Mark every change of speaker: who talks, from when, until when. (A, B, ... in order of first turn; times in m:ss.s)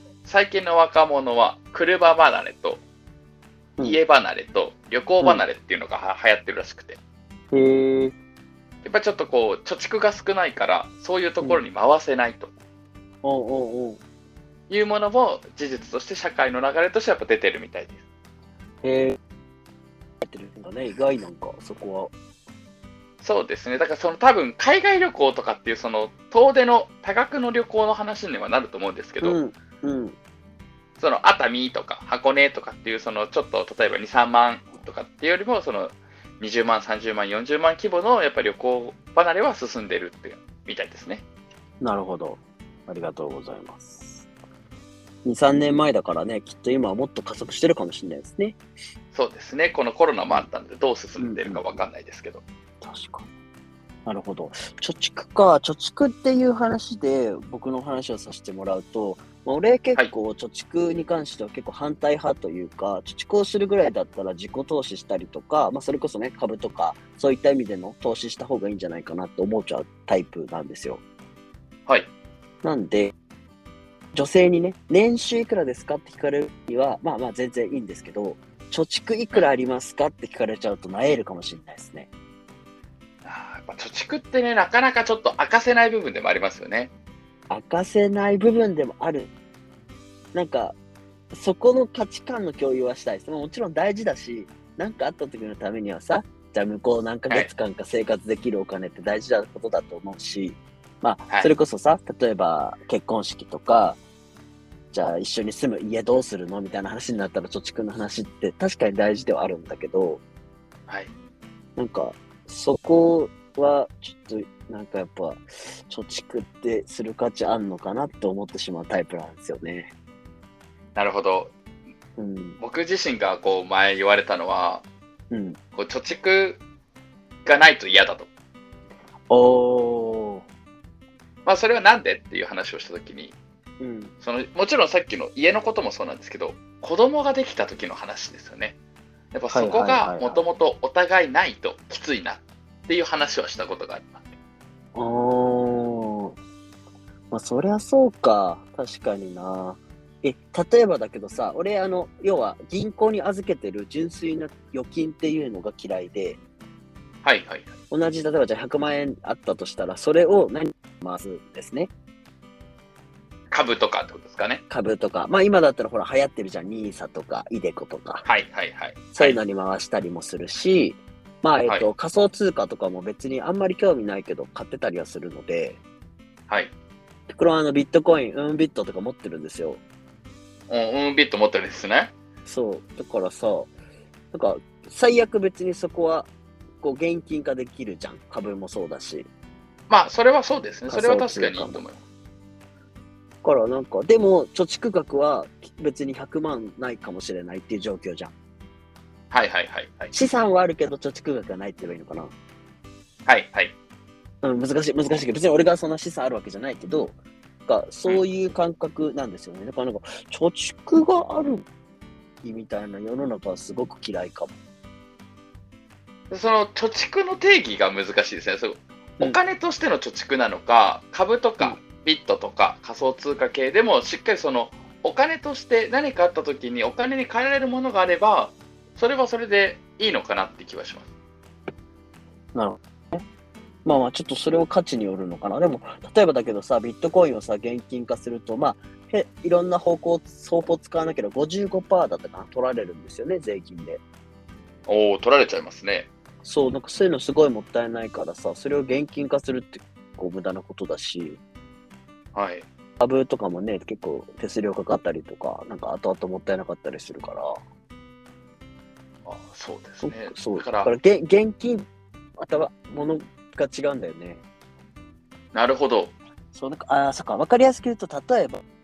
0:00.2-0:02.8 A
0:03.8-0:07.0 A
0:07.5-0:08.1 B
0:08.8-0:12.5 A
0:13.2-0:14.0 B
0:14.7-0:18.0 A
0:18.8-0:19.2 B
0:20.2-0:22.1 B
0:23.2-0:29.4 A
0:29.2-0:30.2 B
0:31.0-0:41.2 A
0:41.8-0:44.3 B
0:45.2-0:48.6 B
0:49.1-0:52.4 A
0:51.2-0:51.8 B
0:52.8-0:53.3 B
0:54.0-1:11.0 B
1:12.6-1:13.1 B
1:14.1-1:22.1 B
1:23.2-1:26.9 A
1:27.5-1:29.3 B
1:30.3-1:30.7 B
1:31.3-1:44.0 B
1:44.9-1:50.2 B
1:51.8-1:59.9 B
2:00.9-2:01.5 A
2:02.2-2:02.6 B
2:02.6-2:04.8 A
2:05.3-2:05.6 B
2:05.8-2:06.6 A
2:07.4-2:08.3 A
2:09.3-2:10.4 B
2:11.4-2:13.3 A
2:13.8-2:14.1 B
2:14.2-2:18.8 A
2:19.3-2:24.2 A
2:19.5-2:20.4 B
2:24.9-2:26.4 B
2:27.3-2:36.4 B
2:37.2-2:37.7 A
2:37.9-2:41.9 B
2:43.5-2:44.6 A
2:44.7-2:48.2 B
2:48.2-2:49.4 A
2:49.1-2:55.8 B
2:57.3-2:59.8 B
3:00.7-3:02.1 A
3:02.4-3:03.7 B
3:04.3-3:06.3 B
3:06.8-3:09.3 B
3:09.9-3:12.0 A
3:10.9-3:11.8 B
3:13.4-3:18.3 B
3:19.3-3:20.1 A
3:20.1-3:22.3 B
3:23.2-3:23.7 A
3:24.4-3:31.6 B
3:32.4-3:34.5 B
3:36.3-3:51.0 A
3:52.5-3:53.2 B
3:53.8-4:04.0 B
4:04.9-4:06.1 A
4:06.4-4:11.4 B
4:12.3-4:12.6 A
4:13.0-4:17.6 B
4:19.2-4:20.9 A
4:20.0-4:21.8 B
4:22.4-4:24.4 B
4:25.5-4:26.1 A
4:26.5-4:28.6 B